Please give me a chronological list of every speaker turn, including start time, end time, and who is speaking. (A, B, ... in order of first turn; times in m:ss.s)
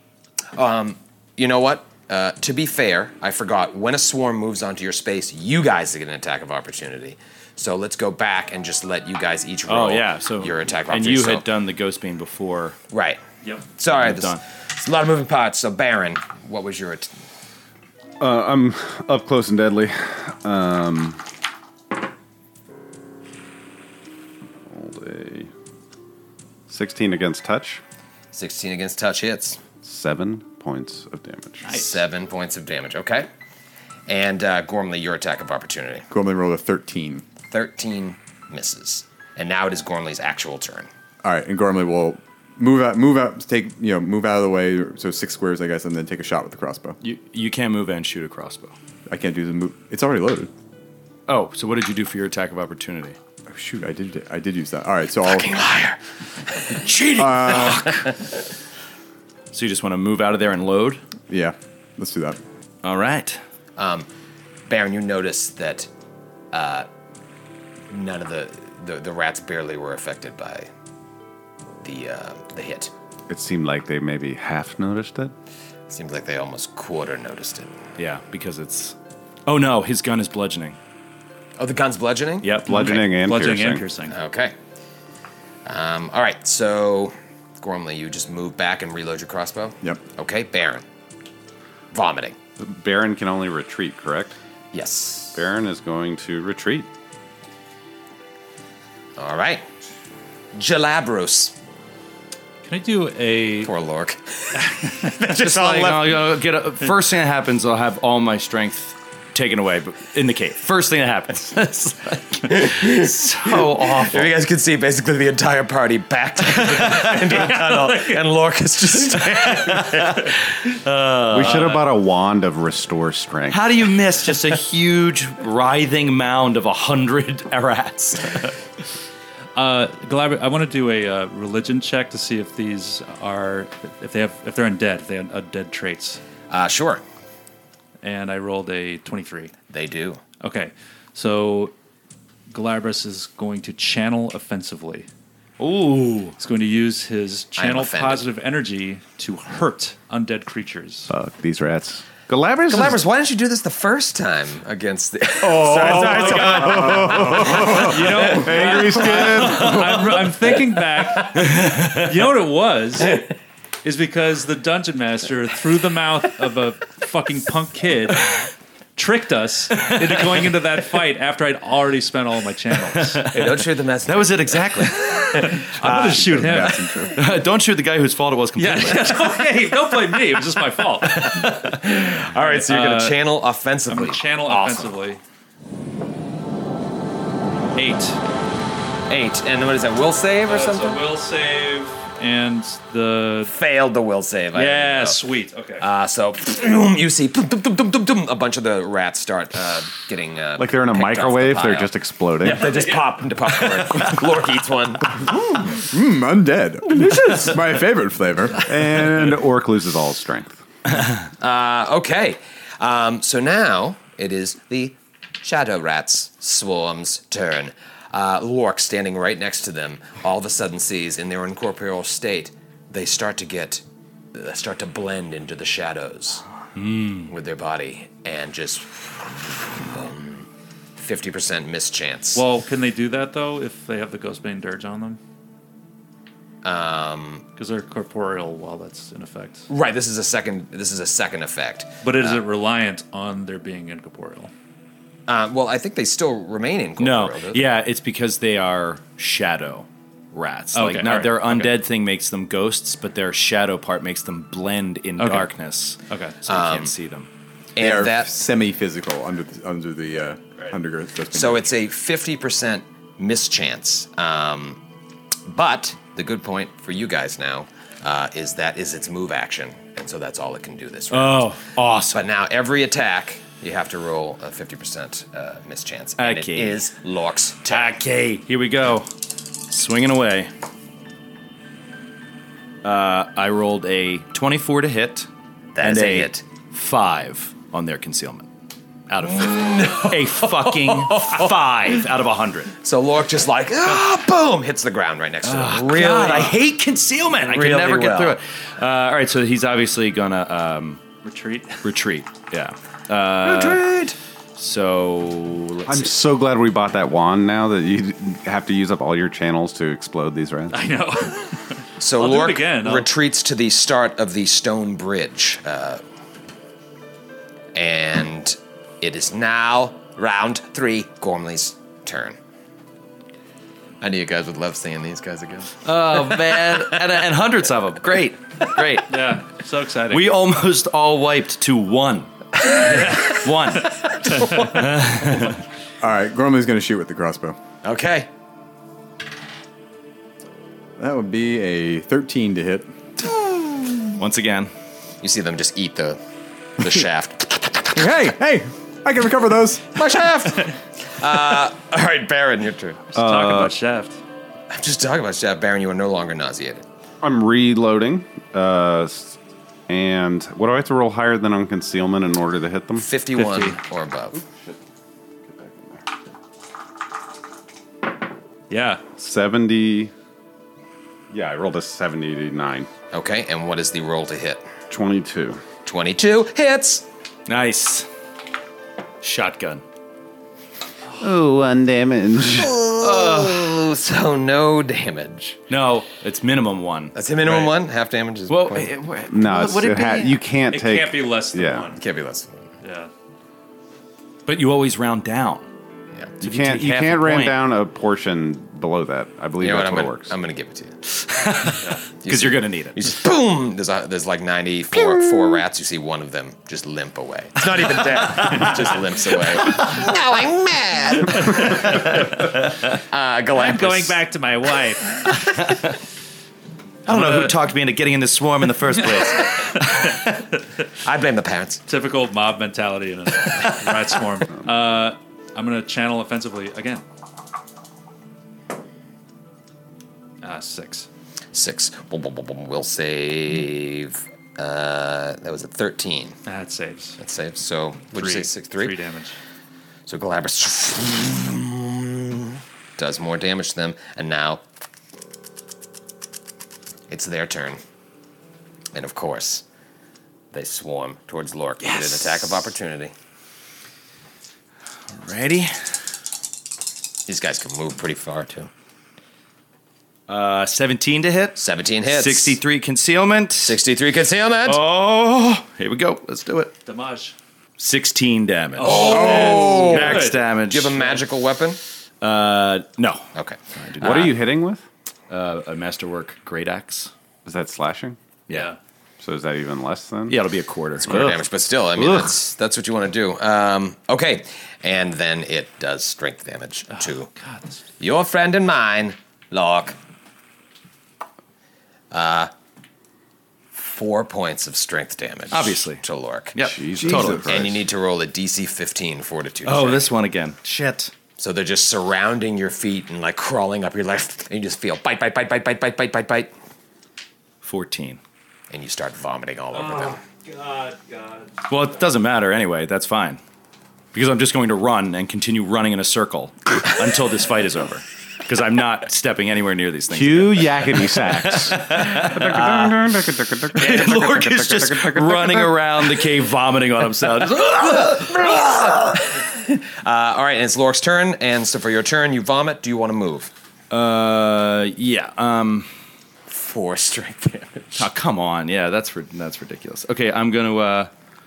0:00.5-0:11.4 A
0:09.6-0:12.8 B
0:12.9-0:13.2 A
0:13.8-0:17.1 A
0:13.9-0:14.4 B
0:18.2-0:21.2 C
0:24.7-0:25.5 C
0:26.7-0:27.8 C
0:28.3-0:29.6 A
0:29.8-0:31.7 C
0:31.6-0:31.9 D
0:31.7-0:33.3 A
0:34.1-0:36.0 A
0:36.1-0:37.2 E
0:37.5-0:40.9 A
0:41.2-0:47.0 E
0:47.0-0:48.7 B
0:49.1-0:50.5 E
0:51.3-0:53.2 B
0:53.5-0:55.5 E
0:55.3-0:58.2 A
0:57.2-0:57.9 E
0:59.5-1:01.0 B
1:01.3-1:02.4 E
1:02.8-1:03.4 B
1:03.8-1:04.1 A
1:04.7-1:05.9 A
1:06.5-1:06.9 A
1:07.9-1:10.7 A
1:11.8-1:12.9 A
1:13.3-1:15.3 C
1:15.9-1:17.7 A
1:18.0-1:18.9 B
1:19.5-1:20.8 B
1:21.6-1:22.6 A
1:22.4-1:23.0 B
1:22.6-1:23.9 C
1:22.7-1:24.2 D
1:24.1-1:24.5 A
1:25.6-1:30.8 A
1:31.9-1:32.4 A
1:32.6-1:34.4 C
1:34.7-1:35.4 A
1:35.3-1:36.9 C
1:39.2-1:39.6 A
1:40.5-1:41.5 A
1:42.6-1:43.7 D
1:43.6-1:46.3 A
1:44.6-1:45.1 D
1:45.3-1:54.3 B
1:52.5-2:00.3 A
1:56.6-1:57.5 B
1:59.2-2:01.8 B
2:01.3-2:03.6 C
2:01.4-2:01.9 D
2:03.5-2:08.5 B
2:09.6-2:16.2 D
2:16.5-2:17.0 A
2:18.0-2:19.5 D
2:19.7-2:20.2 A
2:20.4-2:21.7 D
2:22.5-2:25.1 D
2:25.6-2:26.4 B
2:26.4-2:31.1 D
2:27.6-2:28.2 A
2:31.1-2:33.0 C
2:32.7-2:38.9 A
2:35.5-2:36.2 C
2:35.8-2:43.2 D
2:36.4-2:36.7 B
2:36.8-2:40.0 C
2:41.4-2:42.1 B
2:43.8-2:53.2 D
2:52.9-2:55.3 B
2:53.3-2:56.7 A
2:55.4-2:57.1 D
2:55.8-2:57.2 E
2:57.2-2:59.4 B
2:58.6-3:01.5 D
3:01.0-3:01.7 B
3:01.5-3:04.9 A
3:02.0-3:03.2 D
3:03.9-3:05.2 D
3:07.8-3:08.2 D
3:09.1-3:11.0 A
3:10.4-3:13.5 D
3:13.5-3:15.2 A
3:14.5-3:15.8 D
3:15.8-3:25.7 A
3:20.6-3:22.7 C
3:22.4-3:23.1 D
3:25.7-3:28.7 E
3:27.0-3:27.4 A
3:28.6-3:30.6 C
3:31.4-3:43.8 A
3:44.3-3:46.4 A
3:46.7-3:47.3 B
3:47.3-3:50.4 A
3:51.0-3:52.4 A
3:52.3-3:55.2 D
3:56.6-3:57.4 A
3:57.6-3:59.7 D
3:59.7-4:02.4 A
4:02.0-4:04.5 D
4:05.3-4:07.6 A
4:07.0-4:17.3 B
4:10.7-4:11.8 D
4:15.2-4:15.5 D
4:16.1-4:16.4 D
4:16.5-4:16.9 A
4:17.7-4:18.3 A
4:17.8-4:21.7 E
4:21.3-4:24.8 A
4:25.5-4:31.5 A
4:31.1-4:32.3 B
4:32.1-4:38.0 A
4:36.2-4:36.8 B
4:37.7-4:39.1 B
4:39.7-4:40.5 B
4:42.8-4:45.3 B
4:45.8-4:46.4 A
4:45.8-4:48.5 B
4:49.1-4:52.7 B
4:49.3-4:52.0 A
4:52.8-4:56.7 A
4:55.4-5:01.0 B
4:57.4-4:58.4 A
5:01.2-5:01.8 D
5:01.8-5:03.9 B
5:03.4-5:04.1 A
5:04.6-5:06.1 B
5:05.9-5:10.8 C
5:10.7-5:13.1 D
5:12.0-5:16.0 A
5:17.7-5:22.4 A
5:24.0-5:26.9 A
5:25.8-5:29.4 B
5:29.1-5:30.3 D
5:30.1-5:33.9 B
5:32.9-5:33.3 D
5:34.3-5:34.7 A
5:34.5-5:35.6 B
5:36.0-5:37.6 E
5:37.8-5:38.3 A
5:41.0-5:42.9 E
5:44.2-5:44.7 B
5:45.2-5:46.2 A
5:46.8-5:48.0 A
5:47.9-5:50.0 E
5:49.9-5:53.1 A
5:53.1-5:53.8 C
5:53.1-5:54.2 D
5:54.7-5:56.8 A
5:57.2-5:59.4 C
5:59.9-6:03.1 C
6:03.0-6:04.4 A
6:03.3-6:03.8 D
6:04.4-6:04.8 C
6:05.5-6:06.0 C
6:08.7-6:09.0 D
6:09.2-6:10.1 C
6:11.3-6:12.9 C
6:13.1-6:14.7 A
6:14.9-6:15.6 C
6:15.8-6:17.0 A
6:17.5-6:18.1 B
6:19.2-6:19.8 B
6:21.2-6:22.8 C
6:22.6-6:25.6 A
6:23.0-6:23.8 B
6:25.7-6:27.7 B
6:27.1-6:28.9 A
6:28.5-6:30.4 B
6:29.3-6:31.9 C
6:30.7-6:32.0 D
6:32.0-6:32.6 A
6:32.8-6:33.1 D
6:34.5-6:35.6 B
6:36.4-6:37.6 B
6:36.4-6:40.3 C
6:39.6-6:41.0 A
6:41.2-6:43.0 B
6:42.2-6:52.3 A
6:48.4-6:48.7 B
6:51.5-6:52.2 D
6:52.9-6:54.2 A
6:53.5-6:55.7 D
6:55.6-6:55.9 B
6:57.1-6:57.6 D
6:57.1-7:00.1 B
6:59.2-7:00.2 D
7:01.0-7:01.8 A
7:01.9-7:07.0 D
7:10.4-7:11.1 D
7:11.5-7:16.4 A
7:16.4-7:17.2 D
7:17.2-7:19.0 A
7:18.2-7:19.4 D
7:20.1-7:24.6 A
7:27.1-7:27.8 A
7:28.9-7:29.6 A
7:30.5-7:33.1 A
7:31.8-7:32.5 B
7:35.1-7:35.7 B
7:37.3-7:38.7 A
7:40.3-7:43.8 B
7:41.6-7:42.6 A
7:43.6-7:44.8 A
7:44.6-7:46.7 B
7:46.8-7:47.3 D
7:47.8-7:51.0 B
7:48.8-7:50.4 D
7:48.8-7:51.8 A
7:49.1-7:49.8 E
7:52.2-7:53.2 B
7:53.4-7:54.3 A
7:53.8-7:54.3 B
7:54.0-7:54.8 C
7:55.3-7:57.1 B
7:57.4-7:58.2 C
7:58.5-7:58.7 B
7:58.5-7:58.8 D
7:59.2-8:00.5 C
8:00.3-8:02.3 B
8:01.0-8:07.3 A
8:06.9-8:07.8 D
8:08.0-8:10.0 A
8:12.1-8:12.5 A
8:13.7-8:20.1 A
8:15.5-8:16.0 B
8:16.5-8:17.6 B
8:16.6-8:17.8 C
8:19.6-8:21.1 B
8:21.4-8:26.5 A
8:27.6-8:28.2 B
8:28.7-8:30.2 A
8:29.8-8:33.4 B
8:34.1-8:43.2 B
8:40.1-8:46.3 C
8:43.7-8:48.3 B
8:47.8-8:53.5 A
8:53.9-8:55.9 B
8:56.5-8:58.1 A
8:58.0-9:01.1 B